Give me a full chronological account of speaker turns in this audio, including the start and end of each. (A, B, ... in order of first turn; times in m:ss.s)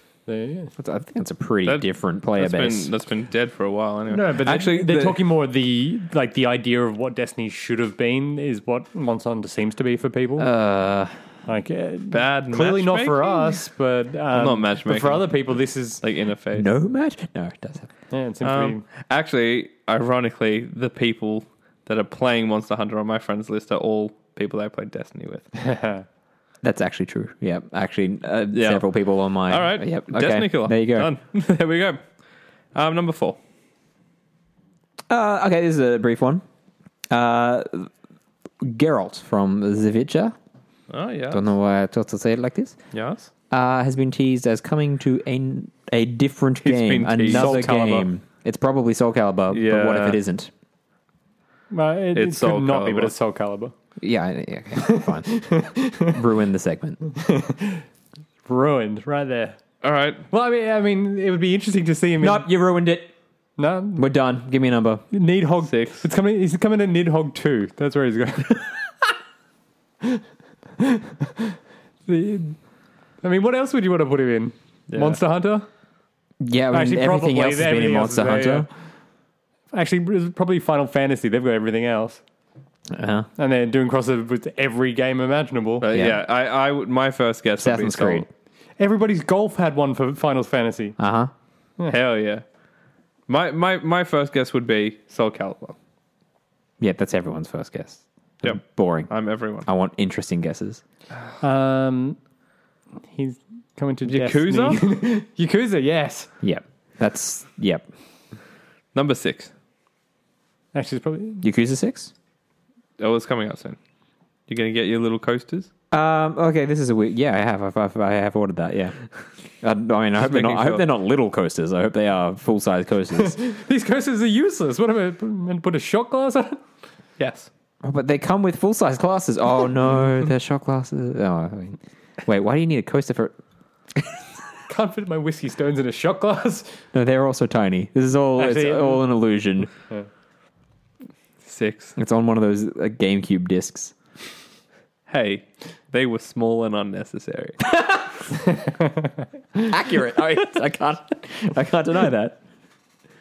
0:00.3-0:00.7 A
0:00.8-0:02.9 B
0:01.7-0:05.2 C
0:04.1-0:10.5 A
0:10.4-0:11.2 B
0:11.5-0:16.0 A
0:12.1-0:13.6 C
0:14.3-0:15.4 C
0:16.0-0:16.7 C
0:16.5-0:17.9 B
0:18.1-0:18.8 A
0:18.4-0:25.5 C
0:25.6-0:26.0 A
0:26.6-0:31.1 B
0:28.5-0:28.8 C
0:29.5-0:32.0 C
0:32.7-0:33.4 C
0:35.1-0:36.4 B
0:37.1-0:37.9 B
0:38.6-0:40.4 B
0:40.9-0:41.4 C
0:41.3-0:42.8 B
0:42.9-0:43.3 C
0:43.5-0:50.5 B
0:46.6-0:47.7 C
0:47.3-0:48.1 A
0:49.5-0:50.2 C
0:51.7-0:53.7 A
0:52.1-0:53.1 C
0:54.0-0:55.3 B
0:54.8-0:56.2 A
0:56.0-0:57.0 B
0:57.0-0:57.8 A
0:58.5-0:59.6 A
0:59.8-1:00.2 C
1:00.3-1:02.5 A
1:02.2-1:03.1 B
1:03.6-1:04.0 A
1:04.0-1:05.0 B
1:05.1-1:08.7 A
1:05.7-1:06.0 C
1:10.8-1:12.6 A
1:13.2-1:15.7 A
1:14.9-1:15.2 C
1:16.4-1:18.7 B
1:16.7-1:18.7 A
1:19.7-1:22.2 A
1:22.9-1:23.3 B
1:23.4-1:25.8 A
1:25.8-1:28.3 C
1:25.9-1:26.2 B
1:27.6-1:28.3 B
1:28.8-1:31.0 A
1:31.0-1:31.3 B
1:31.9-1:32.4 C
1:33.3-1:35.8 C
1:36.8-1:39.1 B
1:38.4-1:39.7 C
1:39.6-1:40.8 B
1:41.4-1:42.2 A
1:43.1-1:46.3 A
1:44.1-1:44.8 C
1:46.4-1:47.8 B
1:48.9-1:49.5 C
1:50.7-1:51.4 A
1:51.4-1:52.1 B
1:53.0-1:53.8 C
1:54.5-1:55.7 C
1:55.9-1:59.0 B
1:59.6-2:03.4 B
2:00.2-2:00.8 C
2:03.2-2:06.6 A
2:07.2-2:07.5 C
2:07.8-2:13.4 B
2:13.9-2:14.2 B
2:14.7-2:16.8 A
2:16.9-2:19.7 B
2:18.4-2:19.0 A
2:21.4-2:22.0 C
2:22.0-2:24.0 B
2:25.1-2:27.7 C
2:27.8-2:28.0 B
2:28.6-2:28.9 A
2:29.6-2:32.4 B